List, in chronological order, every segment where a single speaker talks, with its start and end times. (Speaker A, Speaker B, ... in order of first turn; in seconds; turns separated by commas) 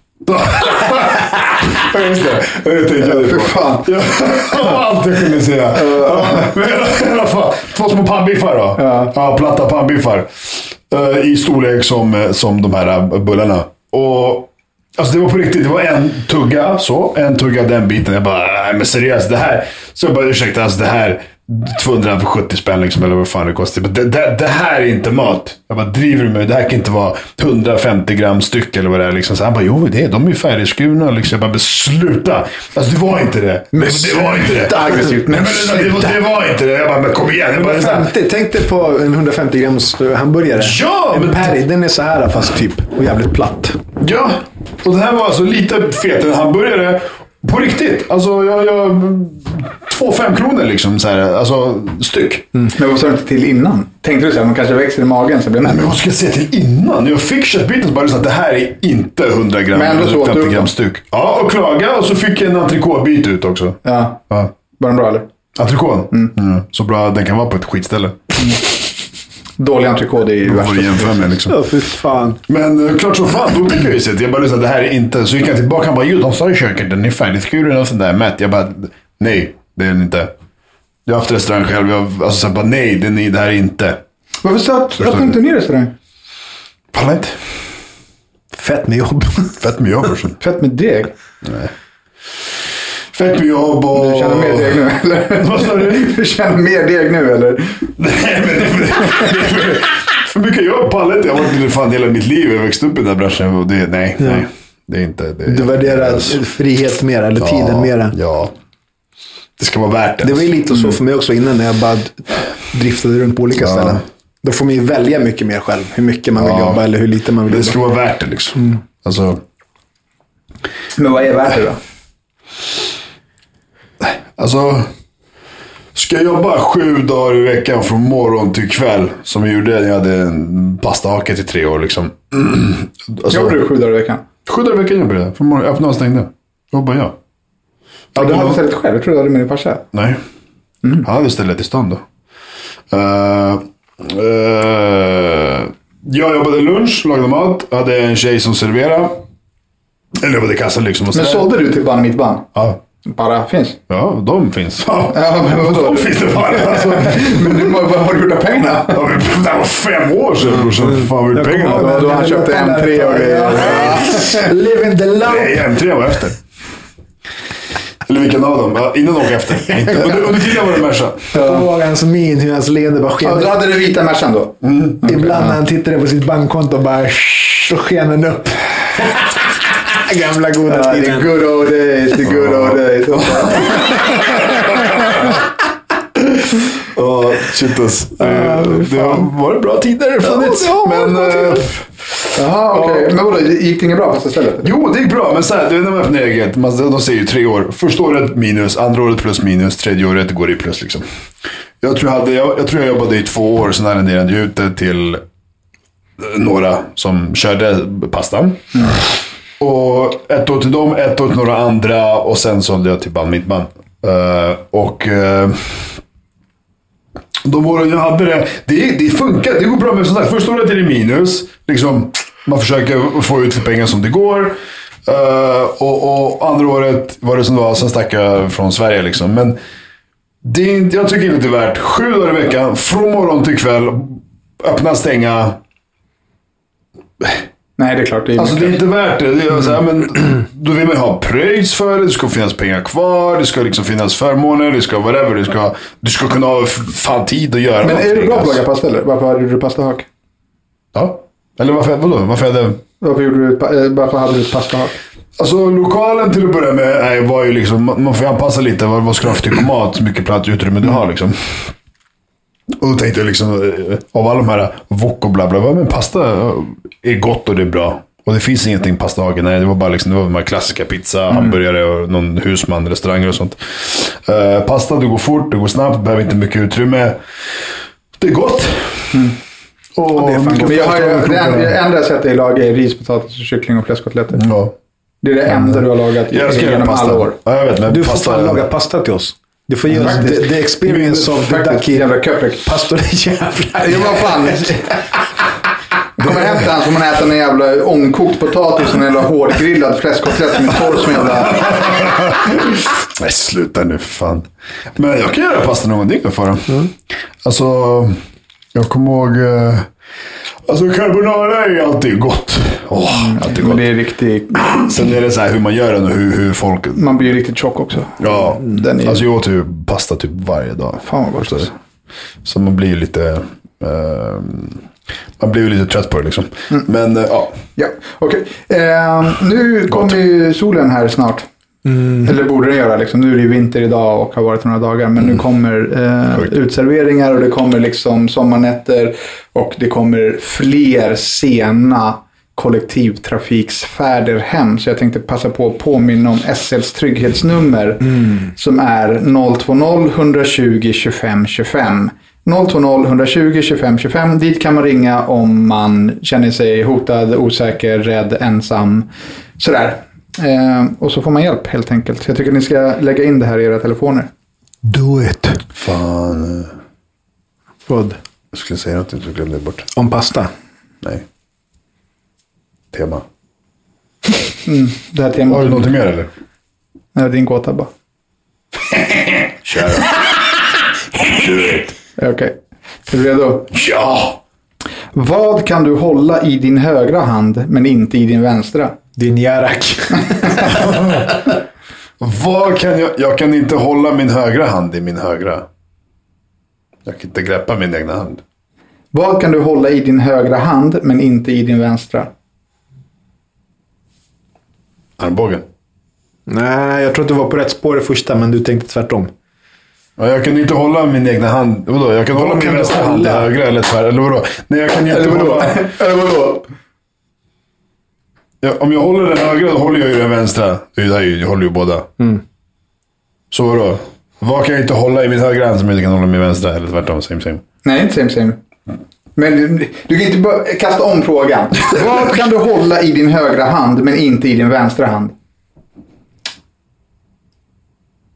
Speaker A: 0.2-38.1, Speaker B: 3.0-3.9, Speaker B: 5.7-6.5, Speaker B: 8.8-9.1, Speaker C: 33.7-36.1, Speaker B: 34.8-35.9, Speaker C: 37.5-43.8, Speaker A: 40.6-41.5, Speaker A: 44.0-52.5, Speaker B: 52.7-55.8, Speaker A: 55.6-64.5, Speaker B: 59.7-60.7, Speaker B: 63.8-64.2, Speaker B: 64.8-65.3, Speaker A: 65.5-68.3, Speaker B: 69.6-71.2, Speaker A: 70.4-71.6, Speaker C: 71.5-72.4, Speaker A: 72.5-80.3, Speaker A: 81.0-84.0, Speaker B: 84.4-85.9, Speaker A: 85.0-85.3, Speaker A: 86.9-87.4, Speaker C: 88.5-89.6, Speaker A: 89.6-90.4, Speaker B: 90.4-91.1, Speaker A: 91.4-91.7, Speaker A: 93.1-94.8, Speaker B: 93.9-97.9, Speaker A: 95.4-96.1, Speaker A: 98.0-106.4, Speaker C: 104.2-104.5, Speaker C: 105.5-108.1, Speaker A: 107.4-108.5, Speaker A: 109.6-110.5, Speaker C: 110.2-117.8, Speaker A: 113.6-114.0, Speaker A: 116.4-116.8, Speaker A: 117.5-119.4, Speaker B: 121.0-121.8, Speaker A: 124.0-124.9, Speaker A: 125.9-133.6, Speaker B: 133.3-134.2, Speaker A: 134.4-137.2, Speaker A: 138.1-138.6, Speaker B: 138.2-139.8, Speaker A: 139.9-140.2, Speaker A: 141.0-142.0, Speaker A: 142.9-149.2, Speaker A: 150.2-151.5, Speaker B: 151.1-152.5, Speaker B: 153.0-153.8, Speaker A: 153.9-157.7, Speaker B: 155.1-159.0, Speaker A: 158.9-162.0, Speaker C: 160.4-165.7, Speaker B: 161.6-164.5, Speaker A: 163.7-164.0, Speaker A: 165.2-166.4, Speaker A: 168.1-171.3, Speaker C: 171.3-173.6, Speaker B: 171.3-171.7, Speaker B: 173.2-175.4, Speaker A: 174.6-175.0, Speaker C: 175.0-179.3, Speaker C: 179.8-181.4, Speaker B: 180.7-184.0, Speaker A: 182.3-182.8, Speaker A: 183.5-184.1, Speaker A: 186.2-191.9, Speaker C: 188.2-189.3, Speaker C: 190.2-191.6, Speaker B: 192.3-194.7, Speaker A: 192.7-193.1, Speaker A: 194.6-201.0, Speaker A: 201.8-205.2, Speaker A: 206.2-209.0, Speaker A: 209.6-216.0, Speaker A: 217.4-229.6, Speaker A: 230.4-235.6, Speaker B: 237.8-238.8, Speaker A: 238.4-248.6, Speaker B: 247.8-250.1, Speaker A: 250.9-252.8, Speaker B: 253.0-255.0, Speaker A: 255.4-261.7, Speaker A: 262.8-277.2, Speaker A: 278.2-279.1, Speaker A: 279.9-281.7, Speaker B: 280.2-284.4, Speaker A: 284.4-284.7, Speaker B: 285.2-287.4, Speaker A: 285.5-288.6, Speaker C: 287.9-294.7, Speaker A: 289.9-291.3, Speaker B: 290.0-290.3, Speaker B: 291.2-292.7, Speaker B: 293.8-295.0, Speaker B: 296.2-301.8, Speaker A: 301.8-308.2, Speaker A: 308.7-309.9, Speaker A: 310.7-313.8, Speaker B: 312.9-314.9, Speaker A: 314.7-317.1, Speaker B: 316.9-319.2, Speaker A: 318.2-321.7, Speaker B: 321.0-321.7, Speaker A: 322.4-324.8, Speaker A: 325.4-327.6, Speaker B: 327.8-331.5, Speaker B: 332.2-364.3, Speaker C: 364.8-365.6, Speaker A: 365.8-366.7, Speaker C: 367.9-368.2, Speaker A: 368.5-369.9, Speaker C: 369.9-370.5, Speaker A: 372.9-373.2, Speaker B: 374.6-375.9, Speaker A: 375.5-376.3, Speaker B: 377.1-377.9, Speaker A: 379.1-380.2, Speaker A: 381.2-381.9, Speaker B: 382.2-382.5, Speaker B: 383.1-383.7, Speaker A: 383.7-384.4, Speaker B: 385.1-388.9, Speaker C: 389.1-390.8, Speaker A: 390.7-391.5, Speaker A: 392.2-395.6, Speaker A: 397.1-398.4, Speaker B: 399.1-402.3, Speaker A: 405.2-405.6, Speaker C: 406.5-409.3, Speaker A: 410.2-415.9, Speaker C: 412.3-413.5, Speaker B: 415.2-416.6, Speaker A: 418.6-422.1, Speaker A: 423.5-427.6, Speaker B: 427.8-428.6, Speaker B: 429.4-435.3